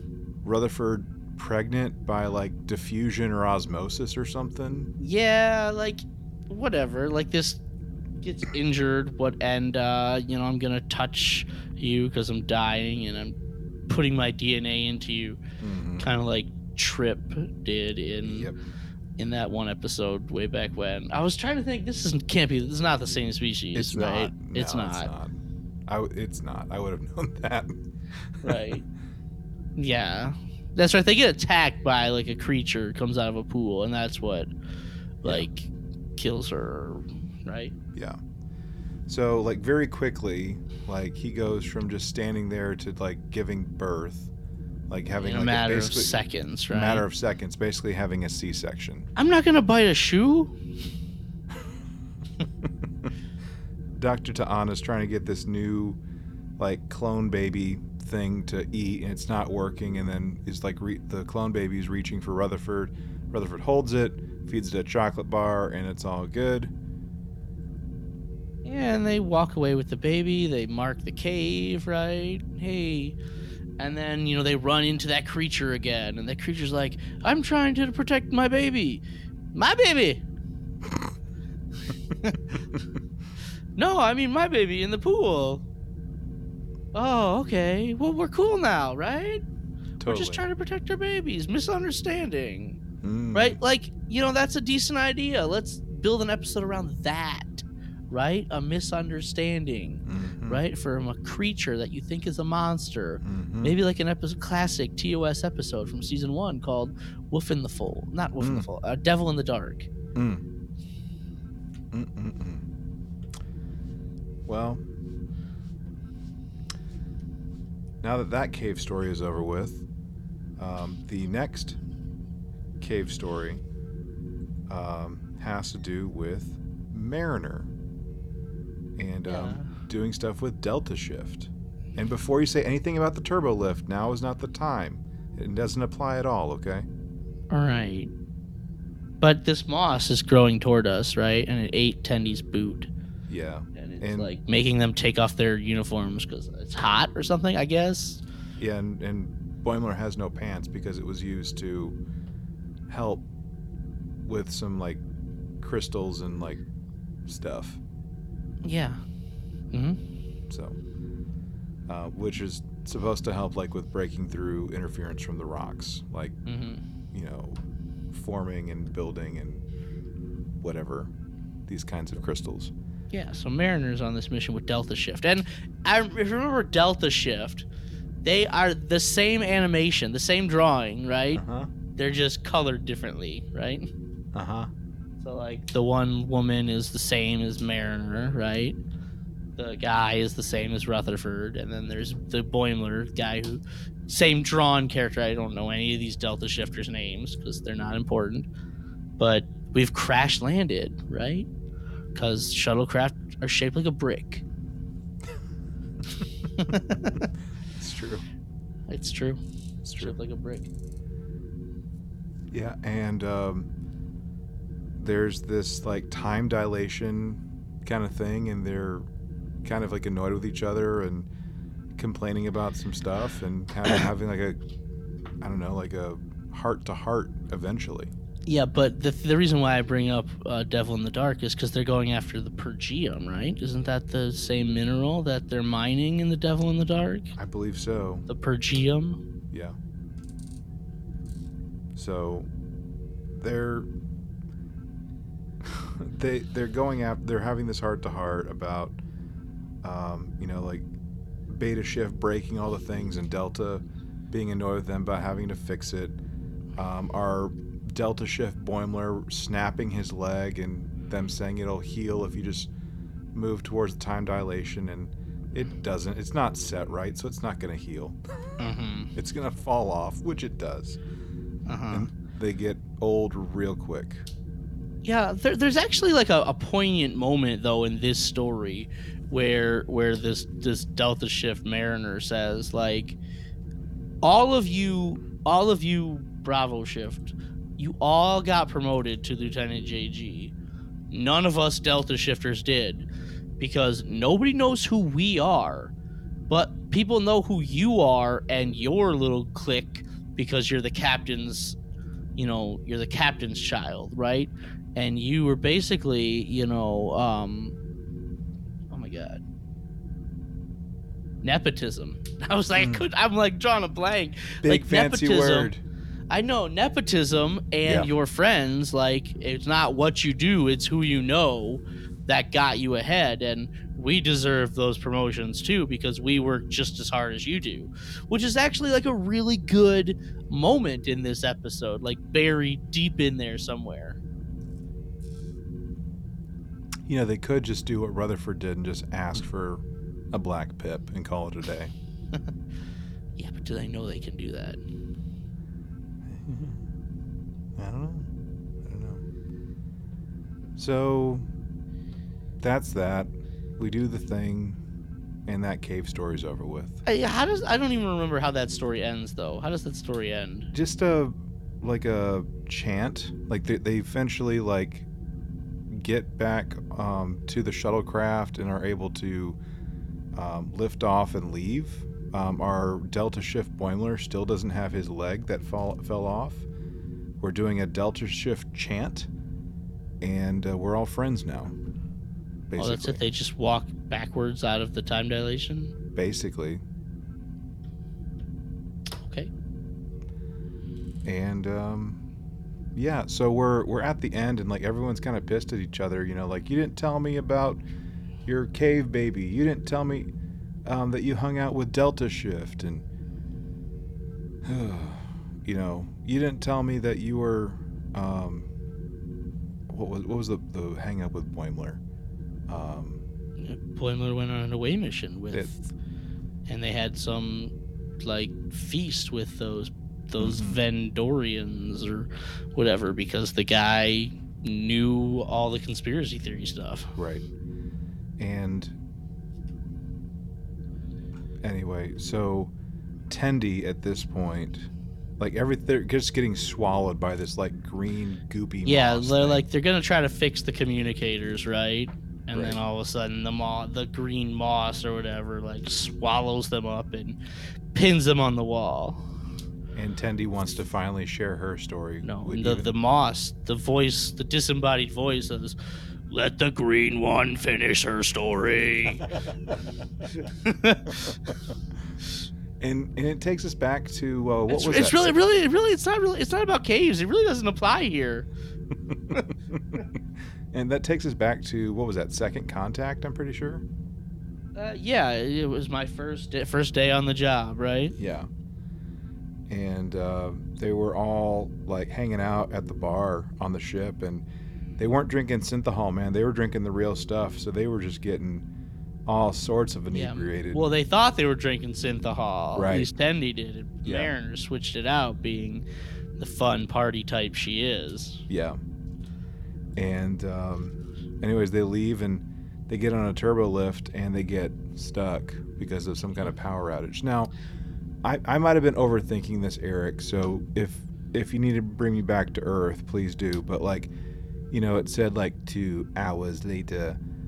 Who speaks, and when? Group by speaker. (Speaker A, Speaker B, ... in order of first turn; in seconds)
Speaker A: 0.4-4.9, 15.6-16.1, 18.2-18.5, 23.7-25.4, 25.9-27.7, 28.3-28.7, 39.1-44.3, 44.9-46.1, 46.7-49.1, 52.6-53.1, 54.0-56.0, 56.6-66.7, 90.0-90.4, 93.0-93.6, 100.0-100.6, 103.2-103.8, 108.4-108.7, 110.1-110.4, 111.9-112.6, 114.5-114.8, 118.0-119.8, 120.6-121.8, 122.8-123.6, 124.7-127.7, 129.0-136.9, 143.3-144.3, 148.6-152.0, 152.9-153.2, 154.2-155.0, 155.6-156.6, 157.2-157.8, 160.5-160.8, 161.9-166.4, 167.1-167.6, 168.1-169.7, 170.6-171.1, 171.7-172.7, 181.3-181.7, 184.3-184.7, 207.8-208.2, 209.8-210.1, 212.5-213.7, 215.0-219.1, 219.6-221.3, 221.9-224.6, 225.4-228.1, 237.3-238.2, 239.5-239.8, 241.9-242.5, 243.3-243.9, 245.6-249.0, 249.8-250.9, 251.5-256.2, 256.8-262.7, 263.3-268.2, 269.1-271.0, 271.9-274.2, 312.8-313.0, 314.6-315.8, 317.8-318.1, 337.1-341.9, 346.2-346.9, 347.8-348.3, 348.8-349.2, 350.8-351.4, 352.6-354.8, 355.5-357.0, 360.7-365.1, 365.9-369.6, 370.3-376.7, 377.4-379.3, 380.2-381.8, 382.7-383.2, 386.1-386.8, 391.2-392.2, 392.9-397.8, 398.4-400.3, 400.8-403.1, 404.6-408.7, 409.9-412.0, 412.7-413.2, 415.5-415.8, 420.4-420.8, 427.1-427.5, 428.4-428.9, 431.6-432.7, 433.3-434.9, 435.4-439.6, 442.5-442.8, 449.9-452.9, 462.8-465.3, 469.1-470.0, 470.7-473.8, 478.2-478.5, 479.7-484.4, 485.0-488.6, 489.2-490.9, 492.7-493.1, 494.0-494.3, 498.5-498.8, 500.0-507.5, 508.2-514.1, 514.7-517.2
Speaker B: 5.0-7.6, 8.2-13.3, 13.9-15.4, 16.0-18.5, 19.2-25.1, 28.4-28.8, 29.8-34.5, 35.2-37.7, 45.2-47.0, 49.1-50.5, 68.6-73.2, 73.8-79.0, 79.5-80.2, 83.8-85.6, 86.9-89.4, 90.0-92.8, 93.3-109.9, 129.3-129.7, 137.5-138.1, 139.2-142.9, 143.7-148.2, 158.6-159.0, 159.7-160.0, 166.4-166.8, 173.1-177.7, 178.2-181.4, 181.9-183.9, 185.2-188.8, 189.6-198.5, 199.2-201.5, 202.1-204.4, 206.6-207.3, 208.9-209.4, 209.9-210.7, 228.4-237.3, 238.3-239.2, 268.6-269.1, 271.7-272.1, 275.0-283.2, 284.2-290.5, 291.1-293.1, 293.6-295.9, 296.5-301.8, 302.4-307.8, 308.9-309.4, 311.4-315.7, 316.3-334.2, 343.4-344.8, 357.1-360.7, 382.8-385.9, 389.2-389.5, 413.6-415.8, 416.7-427.1, 438.8-447.4, 447.9-449.2, 452.2-455.8, 456.3-459.3, 460.6-461.4, 464.7-468.5, 474.7-478.1, 490.1-495.8, 496.4-498.4